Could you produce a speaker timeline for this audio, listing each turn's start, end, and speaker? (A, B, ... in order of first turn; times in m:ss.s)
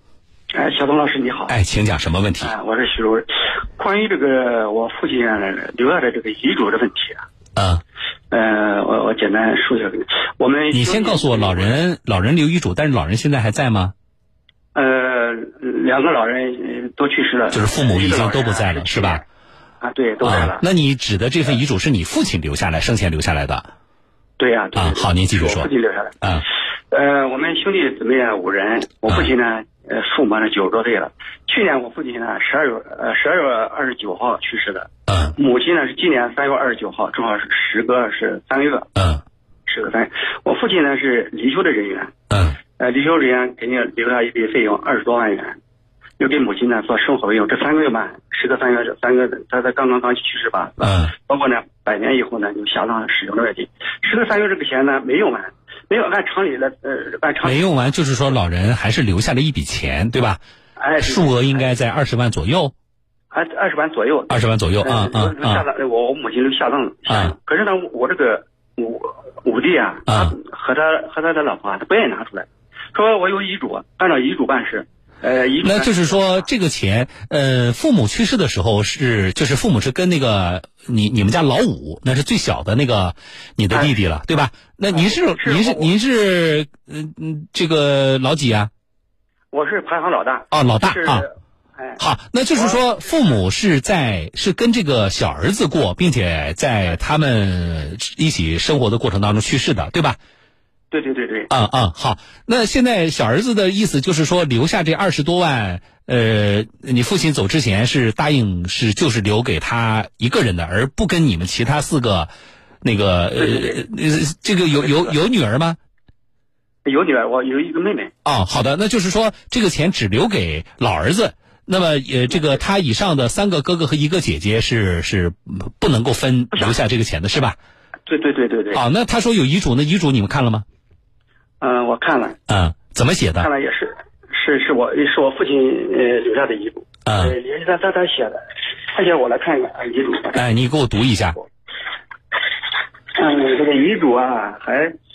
0:00.5-0:01.5 A
0:01.5-0:02.5 B
0:02.4-0:07.2 A
0:07.6-0:07.8 B
0:08.3-0:11.8 A
0:10.7-0:13.9 B
0:14.7-0:19.2 A
0:17.5-0:19.2 B
0:19.8-0:20.6 A
0:20.2-0:23.7 B
0:24.4-0:26.2 A
0:24.7-0:25.7 B
0:26.9-0:38.9 A
0:35.1-0:35.3 B
0:39.0-0:39.2 B
0:39.6-0:42.1 A
0:42.3-0:42.6 B
0:42.8-0:45.6 A
0:46.2-0:57.6 A
0:50.8-0:51.1 B
0:57.4-1:00.4 B
1:00.8-1:01.7 A
1:01.0-1:02.7 B
1:03.3-1:16.4 A
1:04.3-1:05.6 B
1:07.1-1:07.3 B
1:10.1-1:10.4 B
1:15.6-1:28.7 B
1:24.9-1:25.9 A
1:29.5-1:32.0 A
1:30.5-1:31.3 B
1:32.0-1:40.2 B
1:32.5-1:32.8 A
1:40.9-1:41.5 A
1:41.5-1:52.3 B
1:52.8-1:55.8 B
1:53.4-1:53.8 A
1:54.8-1:55.1 A
1:56.8-1:58.1 A
1:58.2-2:07.6 B
2:06.5-2:06.8 A
2:08.0-2:08.8 A
2:08.7-2:10.6 B
2:11.6-2:12.4 A
2:12.5-2:13.5 B
2:13.4-2:20.5 A
2:17.0-2:17.4 B
2:20.3-2:21.4 B
2:23.1-2:25.0 A